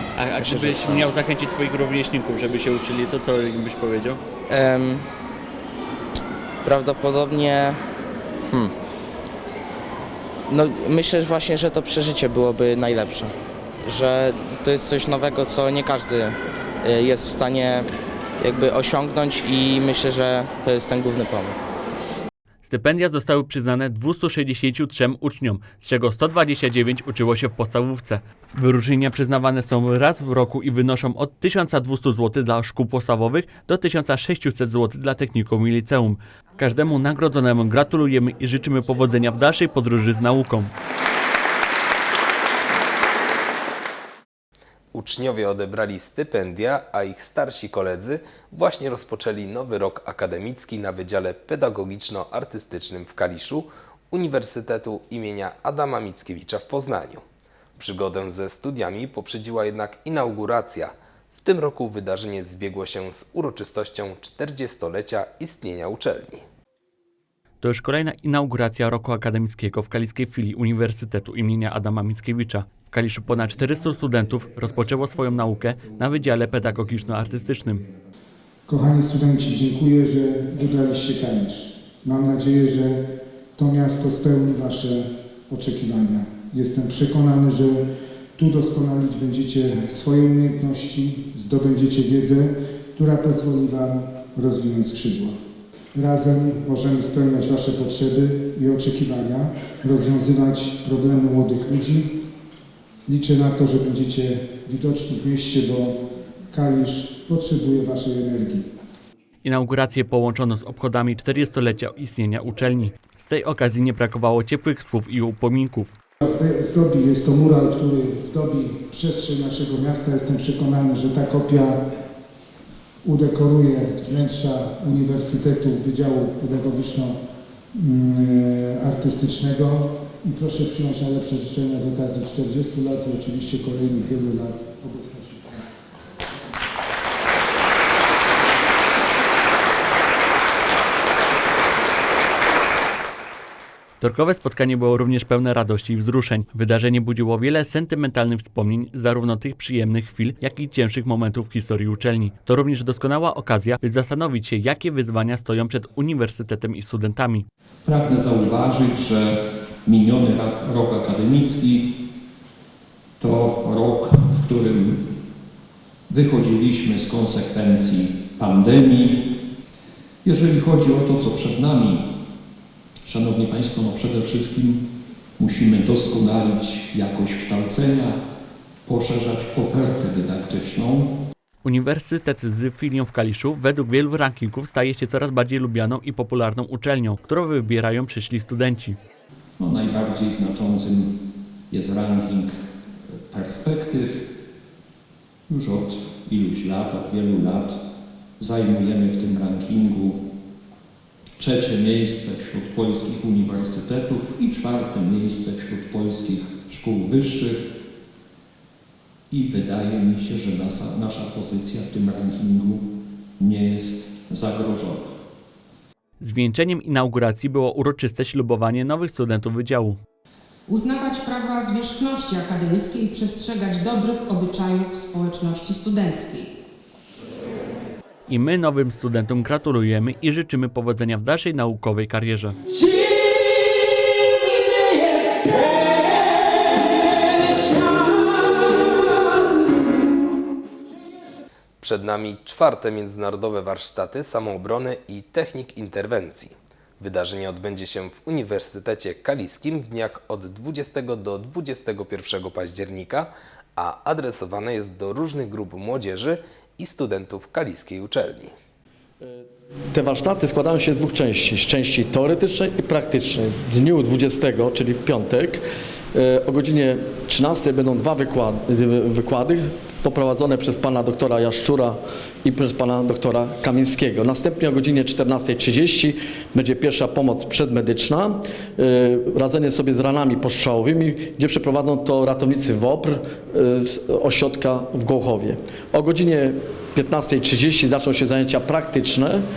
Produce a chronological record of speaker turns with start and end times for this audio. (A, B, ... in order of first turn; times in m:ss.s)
0:00.2-0:04.2 A
0:04.5-0:05.0 B
0:06.6-0:07.8 B
0:10.5-0:17.9 B
0:18.4-0:21.6 B
0:22.6-0:40.7 A
0:44.9-0:57.2 C
0:57.8-1:06.4 C
1:07.6-1:17.9 A
1:18.7-1:27.8 D
1:28.4-1:35.4 D
1:35.9-1:42.2 D
1:43.1-1:46.0 D
1:46.5-1:48.7 D
1:49.4-1:55.9 A
1:56.2-2:01.8 D
2:03.0-2:07.2 D
2:07.7-2:15.7 D
2:24.0-2:37.5 A
2:37.8-2:41.9 E
2:43.2-2:45.1 E
2:46.1-2:49.4 E
2:50.2-2:52.0 E
2:53.0-2:54.9 E
2:55.4-2:58.2 E
2:58.8-3:01.1 E
3:01.6-3:09.0 A
3:09.6-3:12.5 E
3:13.3-3:14.2 E
3:15.5-3:17.8 E
3:18.4-3:20.2 E
3:21.4-3:27.7 E
3:29.3-3:32.9 E
3:33.4-3:35.1 E
3:36.2-3:40.0 A
3:40.7-3:46.5 F
3:48.3-3:52.6 A
4:01.8-4:18.5 C
4:19.2-4:25.6 G
4:26.1-4:49.4 G